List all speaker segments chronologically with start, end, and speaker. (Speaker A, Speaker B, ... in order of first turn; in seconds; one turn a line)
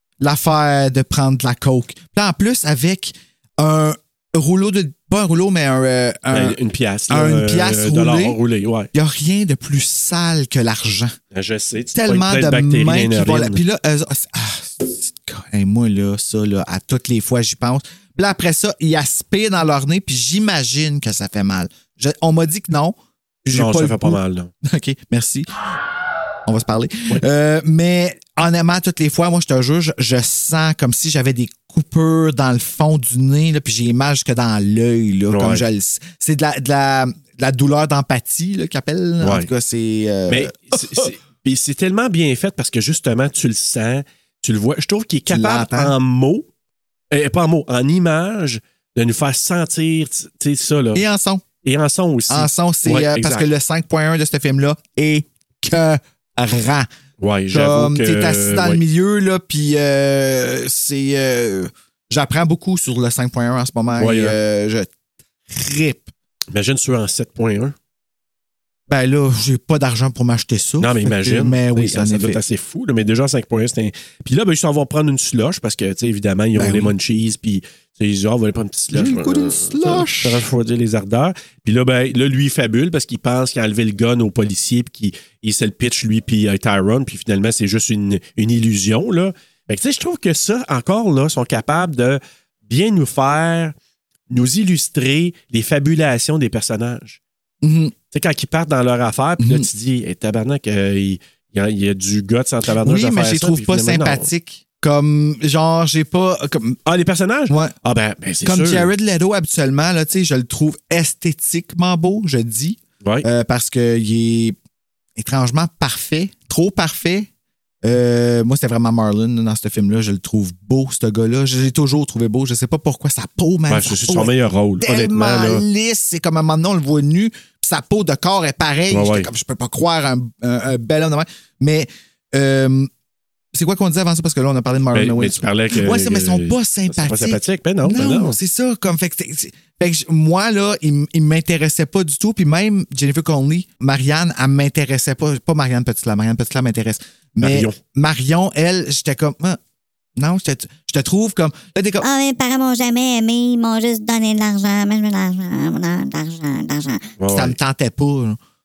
Speaker A: 0.2-6.6
Speaker B: 6.3-8.9
Speaker A: 7.1-8.4
Speaker A: 8.9-11.1
Speaker B: 11.3-13.6
Speaker A: 11.9-25.5
Speaker B: 23.5-24.5
Speaker A: 26.4-41.1
Speaker B: 35.3-35.6
Speaker B: 39.2-39.5
Speaker B: 40.3-46.5
Speaker A: 45.3-45.9
Speaker B: 47.1-51.0
Speaker A: 50.9-51.4
Speaker B: 51.6-53.5
Speaker A: 52.3-56.9
Speaker B: 57.2-58.8
Speaker A: 57.5-64.9
Speaker B: 64.0-64.3
Speaker A: 65.5-66.1
Speaker B: 66.5-67.7
Speaker A: 68.9-72.4
Speaker B: 70.8-93.7
Speaker A: 76.5-76.9
Speaker A: 78.9-80.4
Speaker B: 94.3-97.2
Speaker A: 97.6-97.9
Speaker B: 98.1-104.3
Speaker A: 99.4-99.7
Speaker A: 102.8-106.8
Speaker B: 106.8-108.9
Speaker A: 107.5-107.7
Speaker A: 108.4-114.5
Speaker A: 115.2-117.3
Speaker A: 117.8-132.9
Speaker B: 123.7-125.6
Speaker B: 128.9-129.3
Speaker A: 133.5-149.6
Speaker B: 134.9-138.4
Speaker B: 147.4-147.8
Speaker A: 150.2-152.0
Speaker C: 152.0-157.1
Speaker B: 157.2-157.6
Speaker A: 157.3-158.4